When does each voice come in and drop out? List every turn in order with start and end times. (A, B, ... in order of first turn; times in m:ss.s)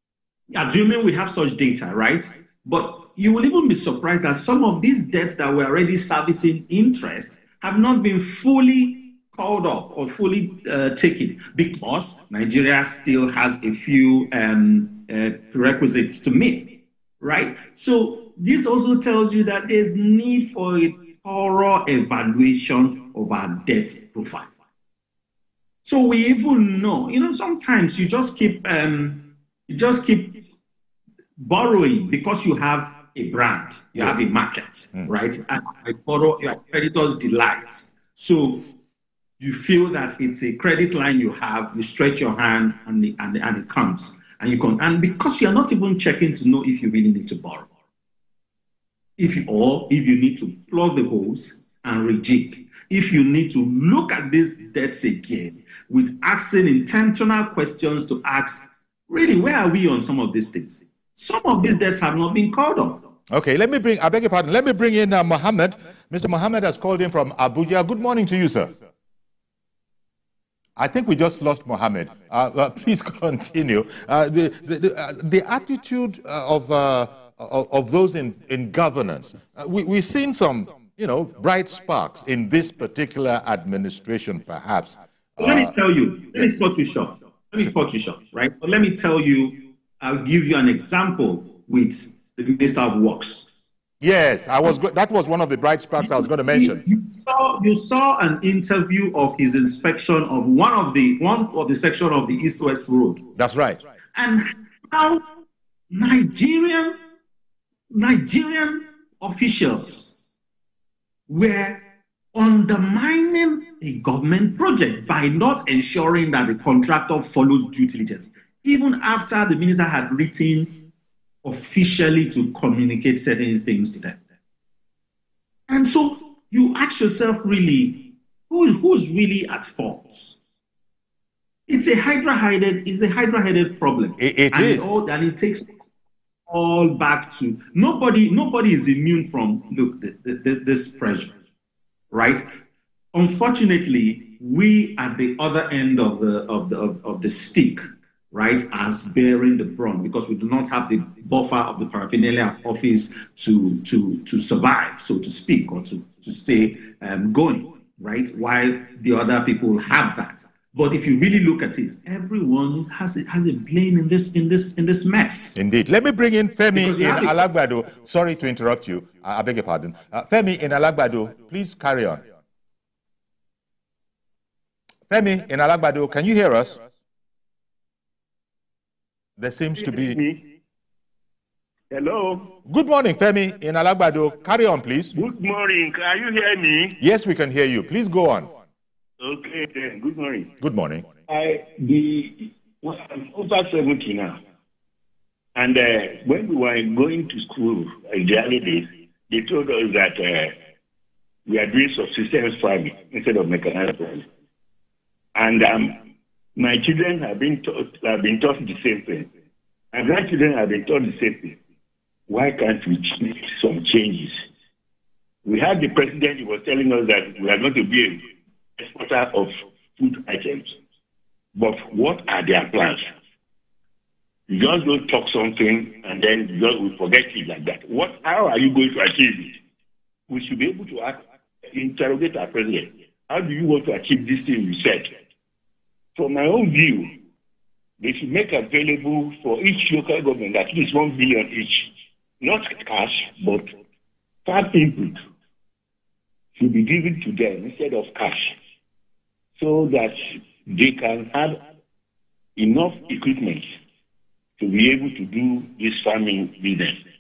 0:00.5-0:24.5 A
0:25.8-0:30.4 A
0:31.4-0:38.7 A
0:39.4-0:47.7 A
0:49.2-1:03.1 A
1:03.3-1:08.8 B
1:10.8-1:25.7 B
1:25.4-1:33.5 A
1:34.0-1:36.8 B
1:36.0-1:43.3 A
1:43.4-1:43.8 B
1:44.2-1:45.2 A
1:45.9-1:47.0 A
1:47.9-1:50.1 A
1:51.3-2:00.8 A
2:01.4-2:04.2 A
2:05.7-2:10.4 A
2:11.7-2:15.7 A
2:14.2-2:14.9 B
2:16.5-2:21.3 A
2:22.1-2:22.5 A
2:23.1-2:45.6 A
2:45.6-2:52.2 B
2:46.7-2:47.4 A
2:55.1-2:56.8 B
2:59.4-3:00.2 B
2:59.8-3:00.4 C
3:01.9-3:02.6 C
3:02.7-3:05.1 B
3:05.1-3:07.0 C
3:07.0-3:08.5 B
3:09.2-3:10.5 C
3:10.6-3:11.1 B
3:11.3-3:14.4 C
3:15.6-3:20.5 C
3:21.5-3:24.3 C
3:25.4-3:26.0 C
3:26.6-3:29.3 C
3:29.9-3:31.6 C
3:32.3-3:34.4 C
3:35.4-3:38.2 C
3:38.8-3:40.8 C
3:41.6-3:43.1 C
3:44.5-3:49.6 C
3:50.3-3:55.1 C
3:56.2-3:57.1 C
3:58.0-4:03.7 C
4:04.5-4:05.2 C
4:06.6-4:08.6 C
4:09.6-4:11.6 C
4:12.6-4:13.6 C
4:14.6-4:17.0 C